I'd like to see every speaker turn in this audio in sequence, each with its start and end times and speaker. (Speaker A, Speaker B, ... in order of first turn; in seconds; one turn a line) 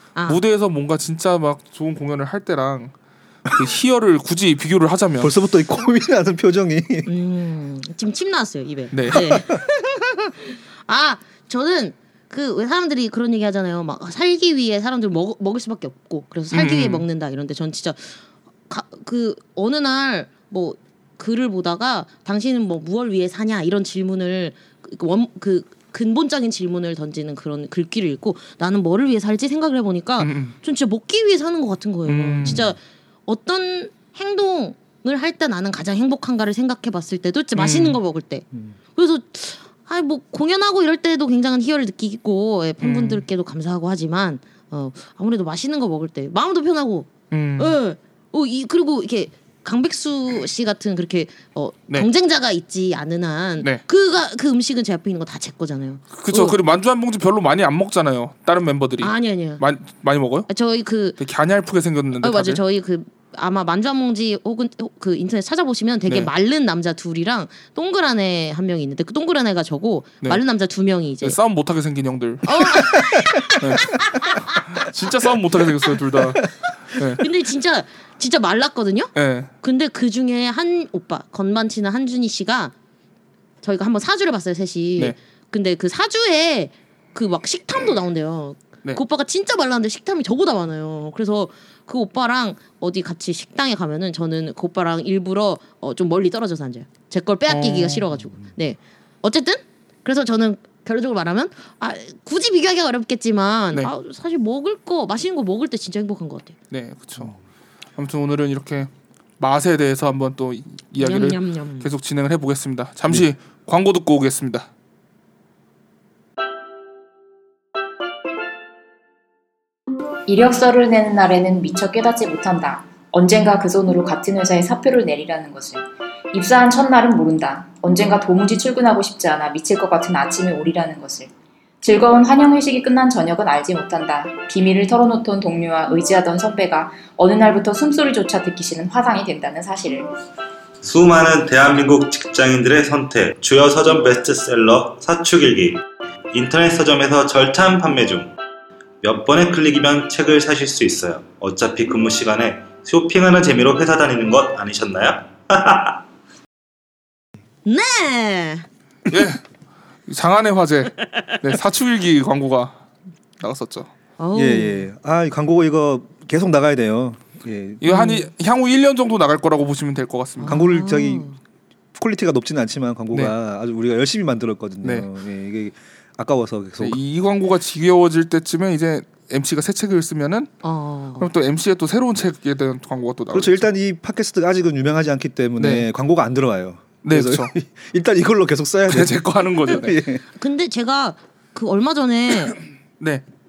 Speaker A: 0.3-2.9
Speaker A: 3.5-5.3
Speaker B: 5.2-7.1
Speaker C: 7.1-18.2
Speaker A: 8.9-9.4
Speaker B: 9.1-9.6
Speaker A: 16.5-17.0
Speaker C: 18.7-56.6
Speaker A: 30.2-30.5
Speaker A: 32.0-32.7
Speaker B: 32.5-32.7
Speaker A: 37.5-38.0
Speaker A: 42.8-43.2
Speaker A: 47.3-47.8
Speaker A: 56.1-60.5
Speaker C: 59.0-59.6
Speaker C: 60.5-61.2
Speaker A: 61.2-62.6
Speaker C: 62.2-71.4
Speaker A: 71.2-74.0
Speaker C: 72.4-74.6
Speaker A: 74.5-77.2
Speaker C: 77.0-82.7
Speaker A: 79.1-79.5
Speaker C: 83.6-106.5
Speaker A: 97.5-98.1
Speaker A: 106.7-107.3
Speaker A: 108.0-114.7
Speaker C: 111.0-111.9
Speaker D: 120.3-131.3
Speaker D: 131.8-140.1
Speaker E: 140.8-148.3
Speaker E: 149.0-156.0
Speaker C: 157.6-158.6
Speaker A: 159.1-159.4
Speaker A: 160.1-162.8
Speaker A: 163.4-163.9
Speaker C: 164.2-164.9
Speaker B: 164.3-167.8
Speaker A: 167.8-170.6
Speaker C: 167.9-168.3
Speaker C: 170.4-171.4
Speaker B: 170.4-171.3
Speaker B: 171.9-177.0
Speaker A: 176.8-180.5
Speaker C: 180.6-181.3
Speaker A: 181.2-183.7
Speaker B: 183.3-189.2
Speaker A: 185.6-185.9
Speaker A: 187.0-187.5
Speaker A: 188.9-190.0
Speaker B: 189.7-190.2
Speaker C: 190.3-192.6